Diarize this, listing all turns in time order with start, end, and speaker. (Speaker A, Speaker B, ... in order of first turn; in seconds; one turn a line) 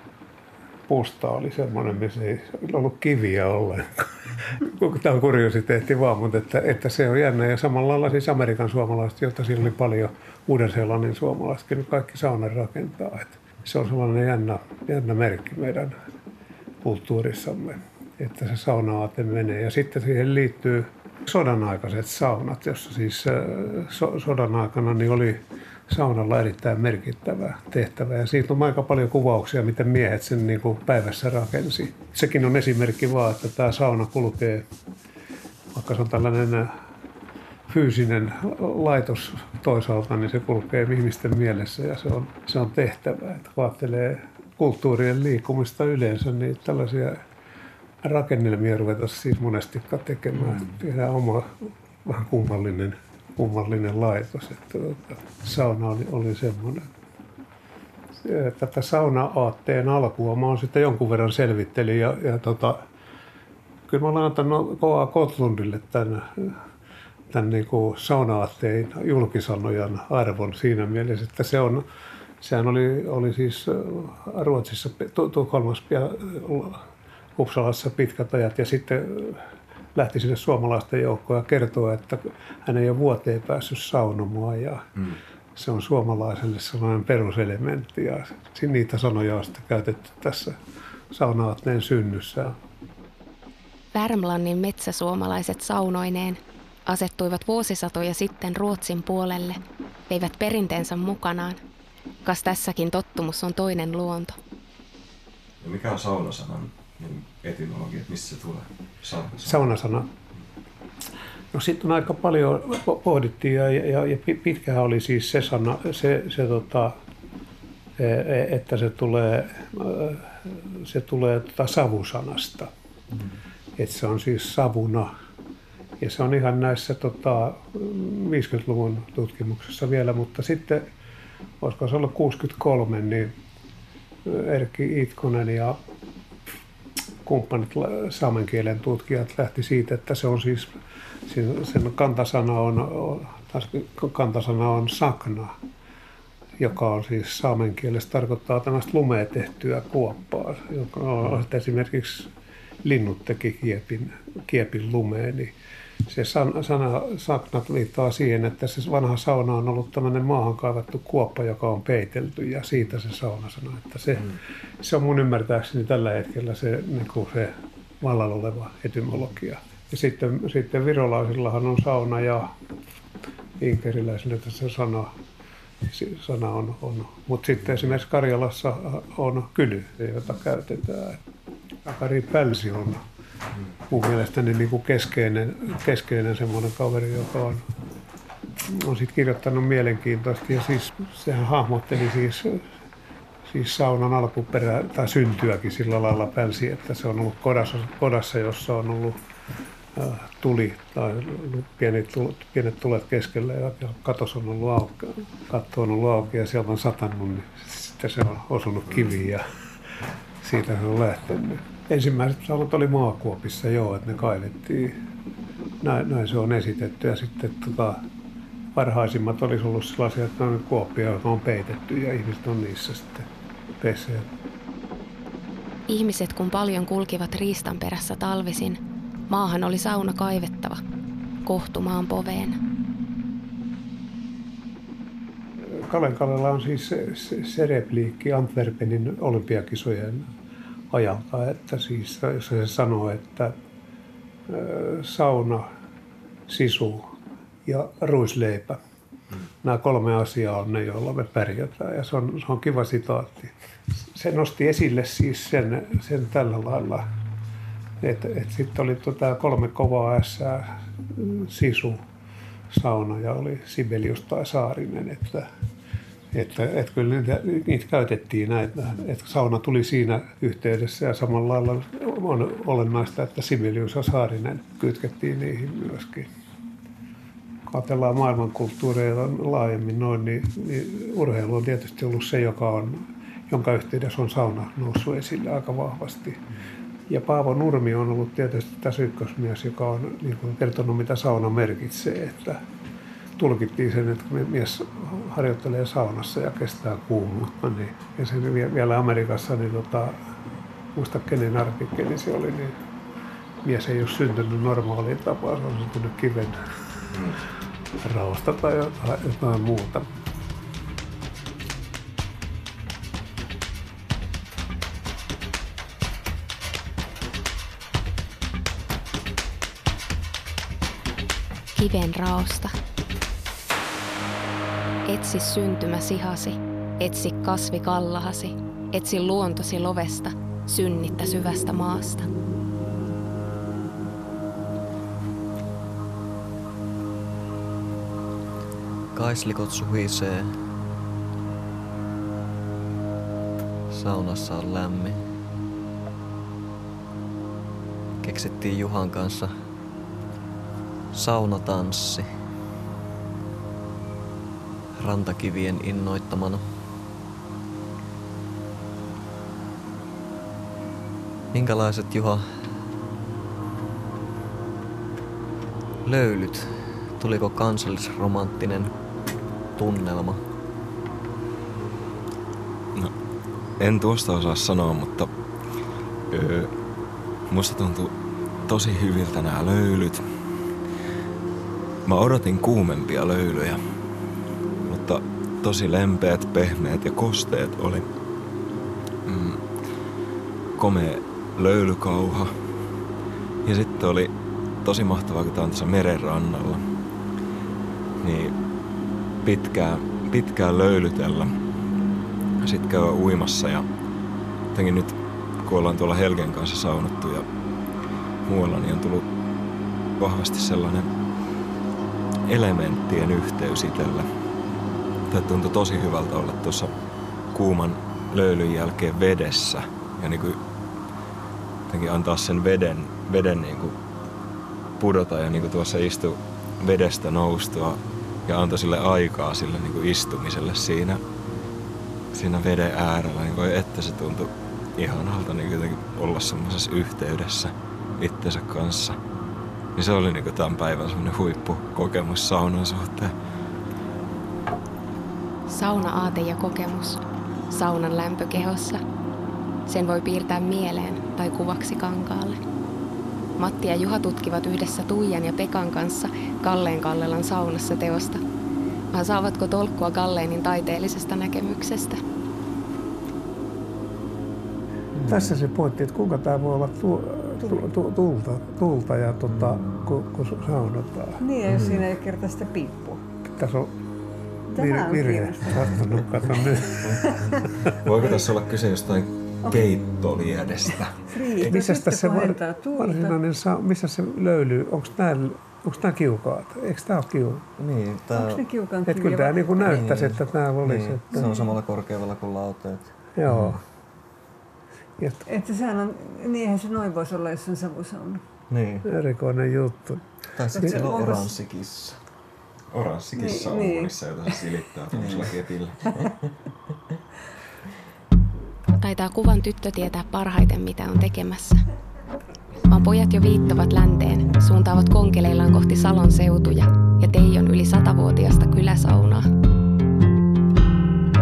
Speaker A: 0.9-15.9
Speaker A: 16.8-34.6
Speaker A: 35.7-36.7
Speaker A: 37.7-47.2
Speaker A: 48.0-56.9
Speaker A: 58.2-62.8
Speaker A: 63.9-66.5
Speaker A: 67.3-71.8
Speaker A: 72.4-76.8
Speaker A: 77.3-79.4
Speaker A: 79.9-84.8
Speaker A: 85.5-90.5
Speaker A: 91.1-92.5
Speaker B: 93.9-101.6
Speaker B: 102.2-104.3
Speaker C: 105.6-109.7
Speaker A: 109.4-110.1
Speaker A: 111.5-116.9
Speaker A: 118.0-122.7
Speaker A: 123.8-125.1
Speaker A: 126.0-130.8
Speaker A: 131.6-133.3
Speaker A: 134.2-135.8
Speaker A: 137.2-140.7
Speaker A: 141.3-145.5
Speaker A: 146.6-152.3
Speaker A: 152.8-155.5
Speaker A: 156.1-172.5
Speaker A: 173.6-175.1
Speaker A: 175.8-181.2
Speaker A: 181.8-183.0
Speaker A: 183.9-187.6
Speaker A: 188.7-192.6
Speaker A: 193.4-199.2
Speaker A: 199.9-209.4
Speaker A: 210.4-215.0
Speaker A: 215.8-218.0
Speaker A: 218.7-223.2
Speaker A: 223.8-224.3
Speaker B: 225.9-228.8
Speaker B: 229.3-230.8
Speaker B: 231.4-232.6
Speaker A: 235.7-240.3
Speaker A: 240.9-243.5
Speaker A: 244.5-245.7
Speaker A: 246.5-247.1
Speaker A: 247.7-248.8
Speaker A: 249.6-257.0
Speaker A: 258.0-262.0
Speaker A: 262.7-265.5
Speaker A: 266.3-276.3
Speaker A: 277.7-286.4
Speaker A: 287.1-292.6
Speaker A: 293.4-300.2
Speaker A: 300.9-302.8
Speaker A: 303.6-306.6
Speaker A: 308.0-310.1
Speaker B: 321.7-322.7
Speaker B: 325.1-332.3
Speaker D: 339.1-340.6
Speaker D: 343.9-345.2
Speaker D: 348.2-349.6
Speaker D: 351.1-352.3
Speaker D: 355.0-356.6
Speaker D: 361.5-362.7
Speaker D: 366.0-368.9
Speaker D: 369.8-370.4
Speaker C: 373.8-375.3
Speaker C: 376.3-376.7
Speaker C: 377.5-378.1
Speaker C: 378.7-380.2
Speaker C: 382.1-383.8
Speaker C: 384.8-388.1
Speaker C: 389.2-389.6
Speaker C: 390.8-392.6
Speaker C: 393.6-394.3
Speaker C: 394.8-396.9
Speaker C: 398.2-398.5
Speaker C: 399.4-401.5
Speaker C: 402.6-403.9
Speaker C: 404.7-407.4
Speaker C: 408.4-409.3
Speaker C: 410.2-411.1
Speaker C: 412.5-414.2
Speaker C: 415.3-416.9
Speaker C: 417.5-420.6
Speaker C: 421.9-423.9
Speaker C: 425.0-431.2
Speaker C: 432.3-439.2
Speaker C: 439.9-443.3
Speaker B: 445.7-449.0
Speaker B: 449.9-452.6
Speaker B: 453.6-458.4
Speaker B: 459.1-462.2
Speaker A: 465.3-471.4
Speaker E: 467.6-467.9
Speaker D: 469.6-470.0
Speaker E: 471.4-473.2
Speaker A: 473.5-473.9
Speaker E: 474.7-476.2
Speaker A: 474.7-477.4
Speaker E: 477.2-477.6
Speaker C: 478.0-481.2
Speaker E: 481.3-483.4
Speaker A: 481.5-487.7
Speaker D: 487.8-488.6
Speaker E: 488.3-489.9
Speaker A: 489.1-491.5
Speaker D: 489.9-493.8
Speaker E: 491.3-491.7
Speaker A: 493.4-493.8
Speaker E: 495.5-498.4
Speaker D: 498.7-499.1
Speaker A: 499.0-500.2
Speaker D: 500.5-502.2
Speaker E: 500.7-501.5
Speaker C: 502.9-506.1
Speaker E: 503.4-504.5
Speaker D: 505.1-505.5
Speaker D: 506.1-506.5
Speaker B: 509.0-511.8
Speaker B: 512.9-519.5